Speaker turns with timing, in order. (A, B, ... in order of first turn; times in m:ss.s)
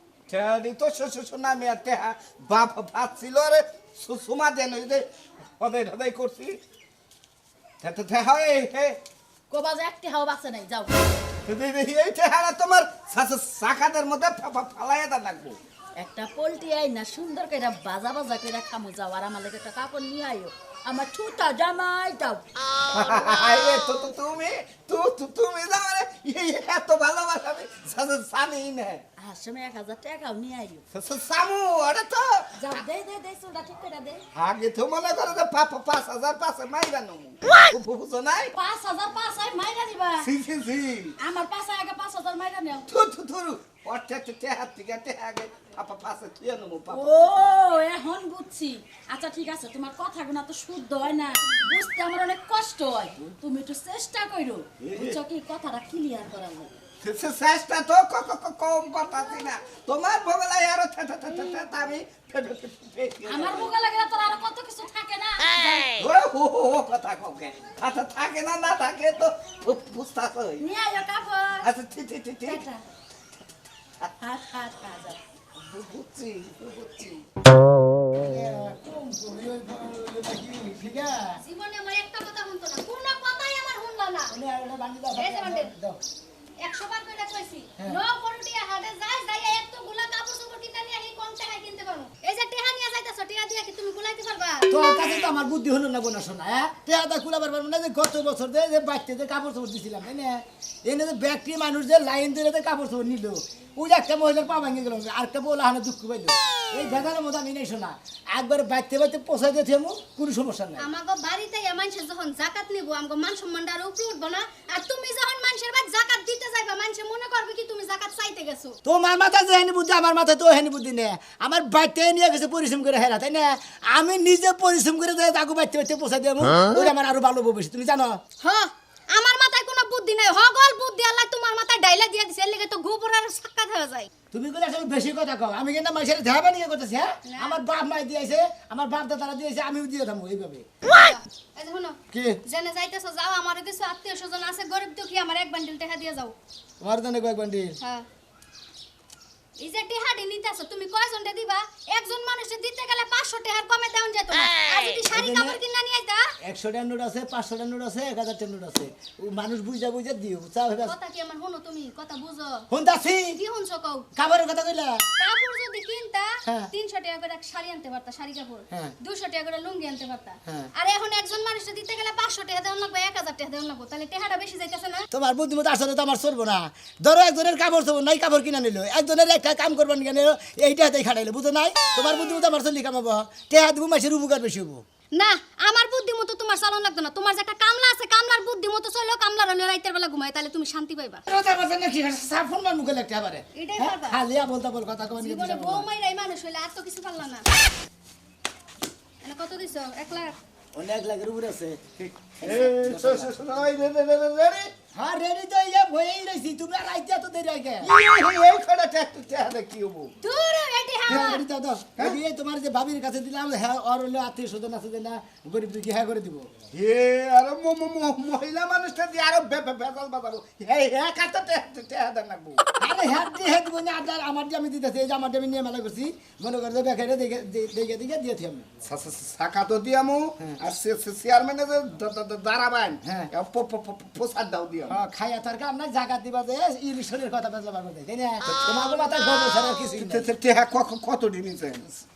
0:00.3-0:05.0 A
0:05.6-0:06.6 A
0:07.8-0:09.0 A
0:09.5-0:10.9 B
0:11.5-0:15.6 A
0:16.0-0:22.4 B
0:22.9-0:29.0 A
0:29.2-0:30.8 B
0:30.9-0:32.5 A
0:32.6-0:34.2 B
0:34.3-0:38.5 A
0:38.6-0:40.3 B
0:40.2-0:41.2 A
0:41.2-0:42.9 B
0:42.9-0:47.2 A
0:46.9-0:56.7 B
0:54.8-0:55.2 A
0:57.0-1:03.7 A
1:03.2-1:05.9 B
1:06.0-1:10.6 A
1:10.6-1:11.7 B
1:11.6-1:12.6 A
1:12.4-1:12.8 B
1:14.2-1:15.2 B
1:15.6-1:17.2 A
1:18.1-1:21.4 C
1:21.4-1:24.4 D
1:24.3-1:26.0 C
1:25.2-1:25.7 D
1:26.6-1:35.0 D
1:34.7-1:50.9 C
1:50.8-1:58.8 D
1:58.8-2:08.2 C
2:08.4-2:14.1 D
2:14.3-2:20.6 C
2:17.2-2:17.6 D
2:20.9-2:26.4 D
2:22.1-2:22.4 C
2:26.8-2:27.8 C
2:27.8-2:28.1 D
2:29.6-2:36.3 D
2:35.1-2:35.6 C
2:36.4-2:41.0 C
2:40.8-2:42.6 D
2:42.7-2:43.4 C
2:43.4-2:44.1 D
2:44.2-2:45.0 C
2:45.2-2:55.0 D
2:46.4-2:46.7 C
2:55.1-3:04.8 C
3:05.2-3:11.2 D
3:11.3-3:15.9 C
3:13.6-3:14.2 D
3:15.2-3:17.5 D
3:19.2-3:20.4 D
3:20.8-3:23.4 C
3:22.4-3:24.7 A
3:24.9-3:27.9 C
3:27.8-3:30.1 A
3:30.2-3:31.4 D
3:31.1-3:36.5 C
3:31.1-3:31.3 A
3:36.7-3:42.6 A
3:42.8-3:48.7 C
3:48.8-3:55.0 A
3:53.0-3:53.3 C
3:54.9-4:00.3 C
3:58.4-4:01.9 A